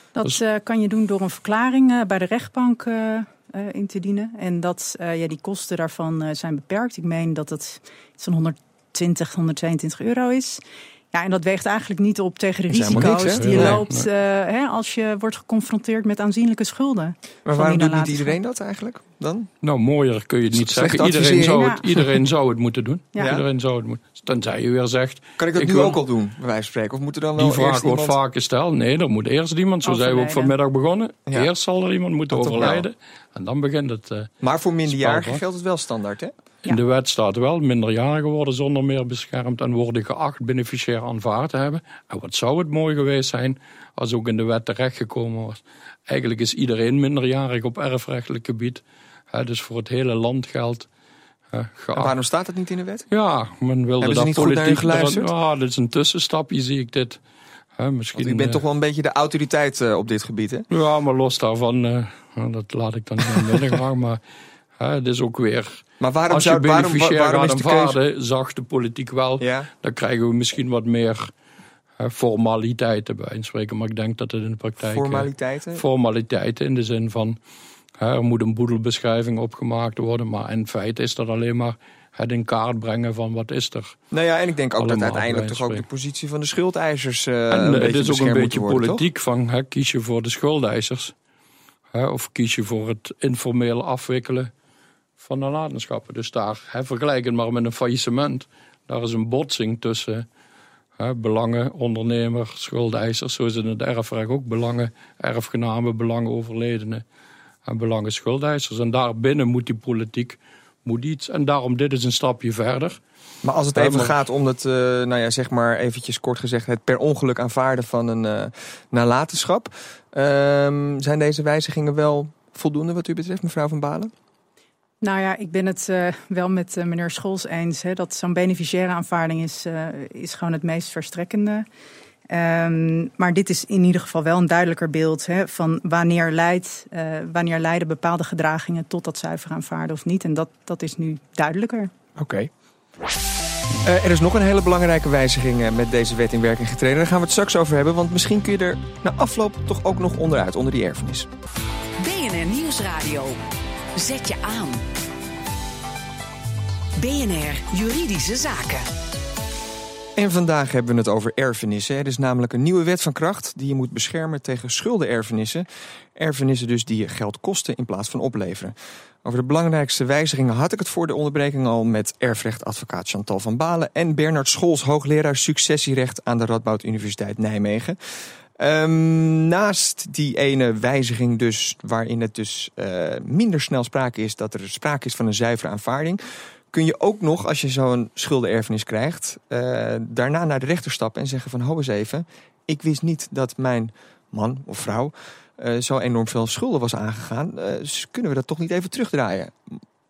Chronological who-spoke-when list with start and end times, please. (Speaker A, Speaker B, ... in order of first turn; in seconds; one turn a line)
Speaker A: 0.1-10.6
Speaker A: 11.1-18.4
Speaker B: 12.7-13.8
Speaker C: 12.9-14.1
Speaker B: 17.4-19.5
Speaker C: 19.6-26.0
Speaker B: 20.5-22.2
Speaker B: 23.2-23.4
Speaker B: 25.4-28.2
Speaker C: 27.4-34.3
Speaker A: 29.9-30.5
Speaker B: 32.3-32.9
Speaker B: 34.4-36.3
Speaker C: 34.9-35.4
Speaker C: 36.7-50.9
Speaker C: 51.5-52.2
Speaker B: 51.9-53.1
Speaker C: 53.1-57.2
Speaker B: 54.0-55.3
Speaker C: 57.8-58.6
Speaker B: 58.1-60.7
Speaker C: 60.7-64.2
Speaker C: 64.8-71.3
Speaker B: 66.0-68.0
Speaker B: 69.4-69.7
Speaker C: 72.0-77.4
Speaker B: 74.8-75.8
Speaker C: 78.0-84.0
Speaker B: 84.1-89.0
Speaker C: 84.8-85.8
Speaker C: 87.5-91.1
Speaker C: 91.9-94.5
Speaker C: 95.2-100.3
Speaker C: 101.0-107.0
Speaker C: 107.7-113.0
Speaker B: 113.4-124.1
Speaker C: 113.8-114.1
Speaker A: 125.0-131.7
Speaker A: 132.3-141.9
Speaker B: 142.2-142.5
Speaker B: 143.8-151.3
Speaker D: 152.0-153.4
Speaker D: 153.9-154.8
Speaker D: 157.0-158.8
Speaker B: 160.2-178.0
Speaker B: 178.6-186.2
Speaker B: 186.7-199.8